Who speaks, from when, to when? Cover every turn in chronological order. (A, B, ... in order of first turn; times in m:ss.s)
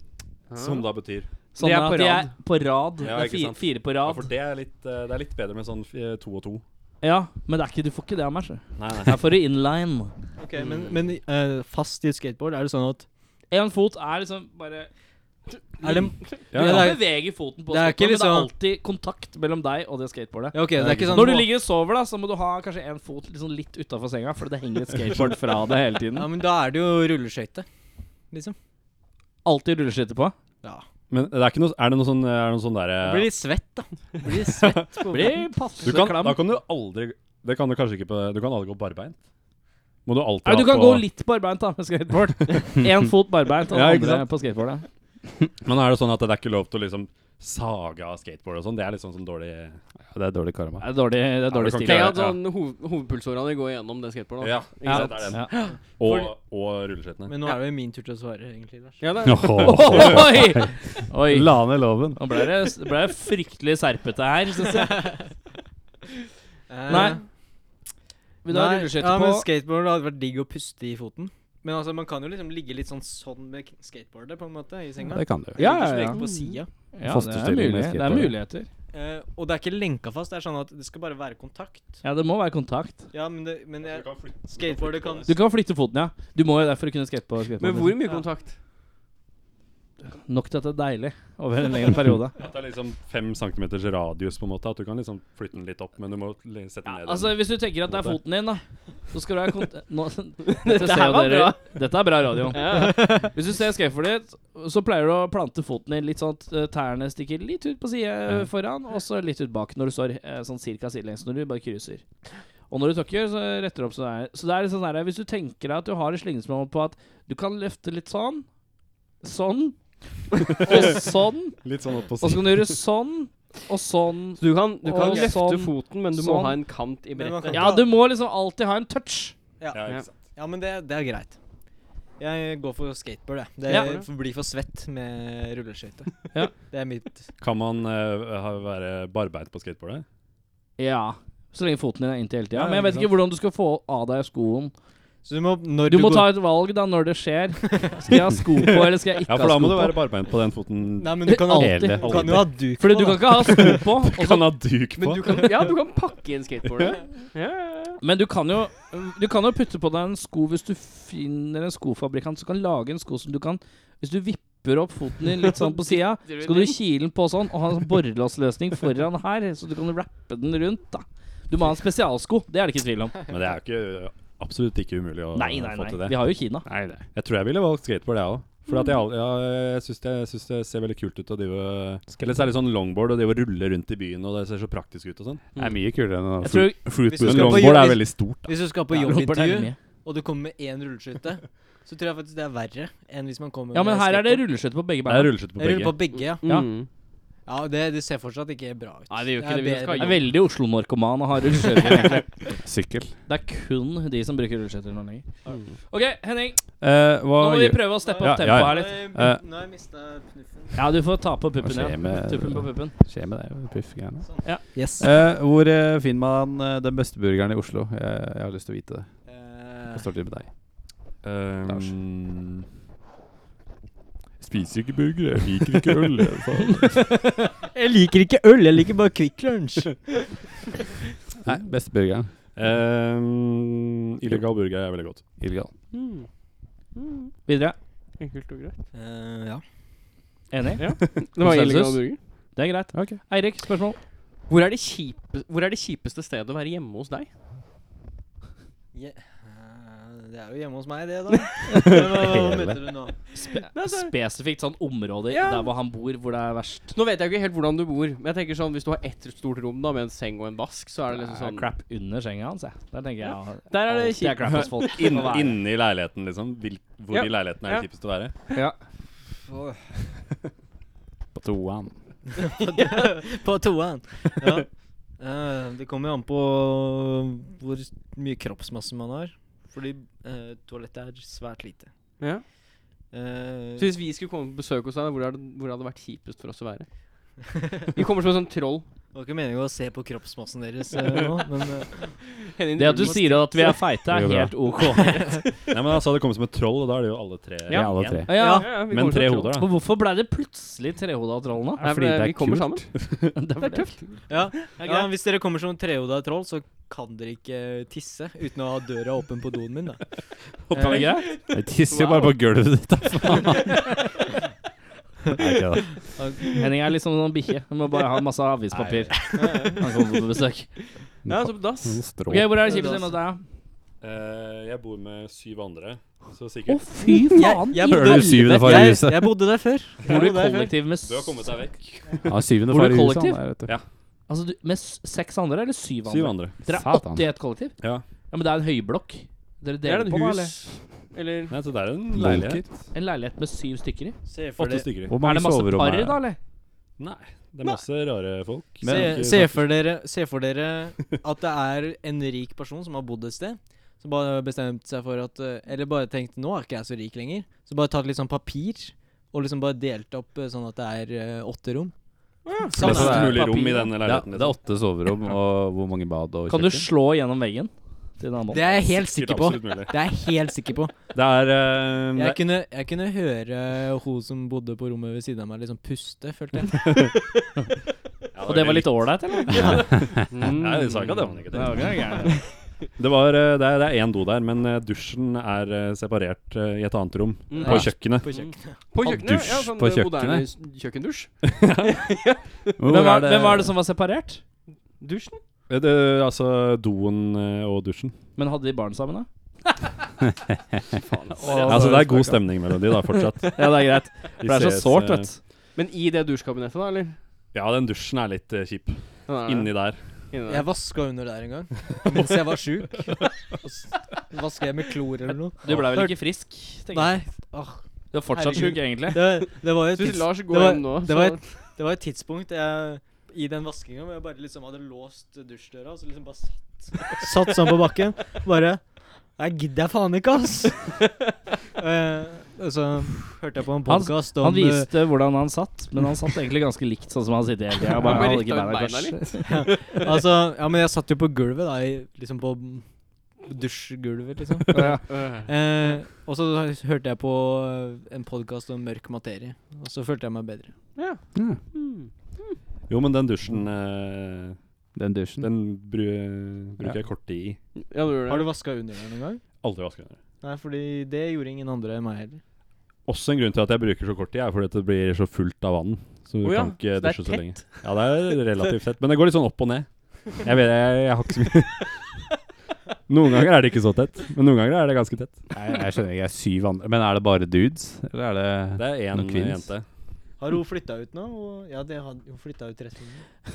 0:00.5-0:00.9 A
0:00.6-0:01.3 B
0:01.5-0:02.3 A
0:01.5-0:04.3 C
0:03.0-0:06.6 B
0:07.0-0:10.1 C
0:08.8-0:09.2 B
0:10.4-0:13.0 D
0:10.6-0:10.9 A
0:13.5-0:14.9 C
0:15.8-0:17.1 D
0:16.5-0:17.0 B
0:16.5-0:26.3 C
0:17.7-0:18.5 D
0:20.5-0:21.5 D
0:20.8-0:21.3 B
0:26.1-0:27.6 D
0:28.3-0:28.6 D
0:29.4-0:30.3 C
0:31.1-0:33.3 B
0:33.0-0:35.4 D
0:34.4-0:35.1 B
0:35.1-0:36.4 C
0:35.8-0:39.2 B
0:40.0-0:41.1 B
0:40.4-0:44.8 C
0:43.7-0:44.2 B
0:45.6-0:49.8 B
0:50.1-0:50.8 E
0:50.8-0:52.2 C
0:51.5-0:52.4 B
0:51.8-0:55.7 A
0:54.4-0:57.3 B
0:54.9-0:55.5 C
0:55.5-0:56.3 D
0:57.2-0:59.1 D
0:59.0-1:00.0 A
0:59.2-1:02.2 E
0:59.6-1:01.5 C
1:02.2-1:05.0 C
1:04.8-1:05.2 D
1:06.7-1:07.2 D
1:06.9-1:07.2 C
1:08.4-1:09.4 C
1:08.5-1:16.7 D
1:15.1-1:15.6 E
1:15.6-1:16.2 C
1:16.0-1:16.6 A
1:16.9-1:18.7 C
1:17.0-1:18.4 E
1:18.9-1:22.0 D
1:22.0-1:23.0 C
1:23.1-1:25.3 D
1:23.8-1:25.3 B
1:25.2-1:28.0 C
1:27.6-1:28.5 A
1:30.1-1:32.4 C
1:32.4-1:38.2 B
1:36.8-1:52.0 C
1:40.4-1:41.6 A
1:42.5-1:43.2 A
1:42.7-1:43.3 D
1:52.7-1:58.4 C
1:59.2-1:59.8 C
2:00.5-2:01.6 C
2:00.5-2:01.0 B
2:01.6-2:02.8 B
2:02.2-2:06.6 C
2:04.4-2:07.7 A
2:05.0-2:05.3 D
2:07.2-2:07.9 D
2:07.5-2:09.3 C
2:09.6-2:11.4 D
2:09.7-2:10.3 B
2:12.2-2:17.3 D
2:13.7-2:14.0 A
2:17.4-2:20.0 B
2:20.8-2:24.7 C
2:22.5-2:23.1 D
2:25.2-2:26.4 D
2:25.9-2:30.0 C
2:27.7-2:28.0 D
2:28.6-2:31.2 B
2:31.0-2:33.8 D
2:31.2-2:34.5 C
2:31.6-2:32.5 E
2:31.8-2:32.5 B
2:33.7-2:35.7 B
2:35.0-2:38.0 A
2:38.0-2:53.2 C
2:45.6-2:46.8 A
2:53.3-2:56.2 B
2:55.3-2:56.6 C
2:56.6-2:57.0 E
2:57.1-3:05.4 B
3:05.6-3:08.2 E
3:06.4-3:06.8 C
3:07.0-3:14.4 D
3:07.2-3:08.5 B
3:08.9-3:09.8 C
3:13.7-3:15.4 C
3:15.0-3:16.0 B
3:15.6-3:16.4 D
3:16.3-3:16.9 A
3:17.5-3:20.2 D
3:19.1-3:20.2 A
3:19.1-3:19.4 C
3:19.9-3:22.3 C
3:22.6-3:23.1 E
3:23.3-3:25.2 C
3:25.9-3:26.6 C
3:26.8-3:29.4 B
3:27.4-3:29.0 C
3:28.0-3:30.9 D
3:30.7-3:32.9 C
3:31.6-3:34.3 E
3:34.2-3:35.1 D
3:35.0-3:39.1 E
3:39.3-3:40.0 D
3:39.9-3:40.5 E
3:41.2-3:42.6 B
3:44.4-3:47.1 E
3:47.7-3:50.3 D
3:51.4-3:52.3 E
3:52.6-3:55.3 B
3:55.4-3:55.7 E
3:55.9-3:56.3 A
3:56.9-3:57.4 A
3:57.5-3:57.8 C
3:58.2-3:58.8 A
3:58.9-3:59.6 D
4:00.5-4:02.0 C
4:00.8-4:02.2 A
4:02.6-4:04.0 C
4:02.9-4:03.2 E
4:04.5-4:07.3 A
4:08.9-4:13.1 D
4:11.8-4:12.8 E
4:13.4-4:16.9 C
4:13.7-4:14.1 A
4:15.3-4:15.7 A
4:16.9-4:21.7 A
4:21.1-4:25.6 C
4:23.7-4:25.0 A
4:24.8-4:28.3 B
4:27.1-4:27.9 A
4:31.3-4:31.9 E
4:32.4-4:34.7 D
4:35.2-4:41.9 D
4:43.1-4:43.9 D
4:43.8-4:46.9 A
4:47.9-4:48.8 A
4:49.1-4:52.1 D
4:52.5-4:53.8 A
4:52.8-4:55.3 C
4:54.1-4:54.5 E
4:55.0-4:55.4 D
4:55.7-4:59.7 B
4:57.7-4:58.8 C
4:57.7-4:58.3 E
4:58.3-4:58.7 D
4:58.4-4:59.5 A
4:59.5-5:01.8 C
5:01.8-5:02.9 E
5:01.8-5:02.9 A
5:03.3-5:04.1 C
5:03.6-5:04.0 A
5:04.3-5:10.0 D
5:04.7-5:05.1 C
5:10.6-5:11.0 B
5:10.7-5:11.1 D
5:10.7-5:11.3 C
5:11.5-5:13.9 E
5:11.8-5:12.4 A
5:15.4-5:15.9 E
5:16.2-5:16.6 D
5:16.6-5:20.7 C
5:19.3-5:19.8 D
5:19.4-5:19.7 A
5:21.2-5:22.6 E
5:21.3-5:22.0 A
5:22.3-5:23.4 C
5:22.6-5:23.1 D
5:24.0-5:26.9 B
5:26.7-5:29.0 C
5:27.3-5:30.7 D
5:27.8-5:29.4 E
5:30.0-5:31.7 C
5:31.0-5:32.4 B
5:32.3-5:33.7 E
5:32.7-5:33.4 C
5:34.3-5:37.7 C
5:36.0-5:36.6 B
5:36.7-5:37.2 E
5:38.3-5:40.5 C
5:39.8-5:41.5 A
5:41.5-5:42.6 B
5:42.1-5:42.6 E
5:42.9-5:44.2 C
5:44.2-5:44.9 D
5:44.6-5:45.2 B
5:45.1-5:46.2 E
5:45.2-5:46.4 C
5:47.0-5:49.6 B
5:48.8-5:49.3 E
5:48.8-6:01.9 D
6:02.4-6:02.7 A
6:02.7-6:06.8 E
6:02.7-6:03.4 D
6:02.8-6:04.6 B
6:02.8-6:03.9 C
6:06.5-6:08.8 C
6:08.5-6:11.0 D
6:08.8-6:09.9 B
6:11.1-6:12.4 B
6:12.1-6:17.2 D
6:16.8-6:17.1 B
6:18.3-6:22.1 B
6:18.4-6:19.8 C
6:20.3-6:21.4 A
6:21.5-6:22.4 C
6:23.0-6:28.3 B
6:27.5-6:31.3 A
6:27.5-6:28.8 D
6:29.0-6:30.4 E
6:31.4-6:32.0 B
6:31.8-6:32.7 A
6:32.8-6:33.7 E
6:32.9-6:34.4 C
6:35.0-6:35.4 A
6:35.7-6:38.1 B
6:38.4-6:39.3 C
6:41.0-6:42.0 A
6:41.4-6:42.0 C
6:41.5-6:42.3 E
6:41.6-6:43.7 B
6:43.5-6:45.4 C
6:44.4-6:45.3 B
6:45.8-6:47.2 A
6:47.5-6:50.0 B
6:49.3-6:49.7 A
6:50.3-6:50.7 A
6:50.4-6:53.2 D
6:54.3-6:56.1 D
6:55.6-6:57.1 C
6:56.9-6:57.8 D
6:58.1-6:59.3 C
6:58.3-7:08.8 D
6:59.9-7:01.4 A
7:09.4-7:10.9 D
7:11.8-7:14.9 D
7:13.9-7:19.6 C
7:18.0-7:19.4 A
7:19.4-7:22.8 D
7:23.4-7:24.9 D
7:24.7-7:25.0 C
7:25.0-7:25.5 A
7:25.4-7:30.7 D
7:31.0-7:32.6 A
7:32.9-7:34.6 B
7:35.0-7:35.5 E
7:35.4-7:37.6 B
7:37.9-7:38.5 A
7:38.3-7:39.4 D
7:39.6-7:40.2 B
7:40.4-7:42.4 D
7:43.1-7:51.8 B
7:46.4-7:47.8 A
7:53.1-7:55.4 B
7:55.5-7:59.7 E
7:58.8-7:59.8 B
8:00.4-8:03.2 D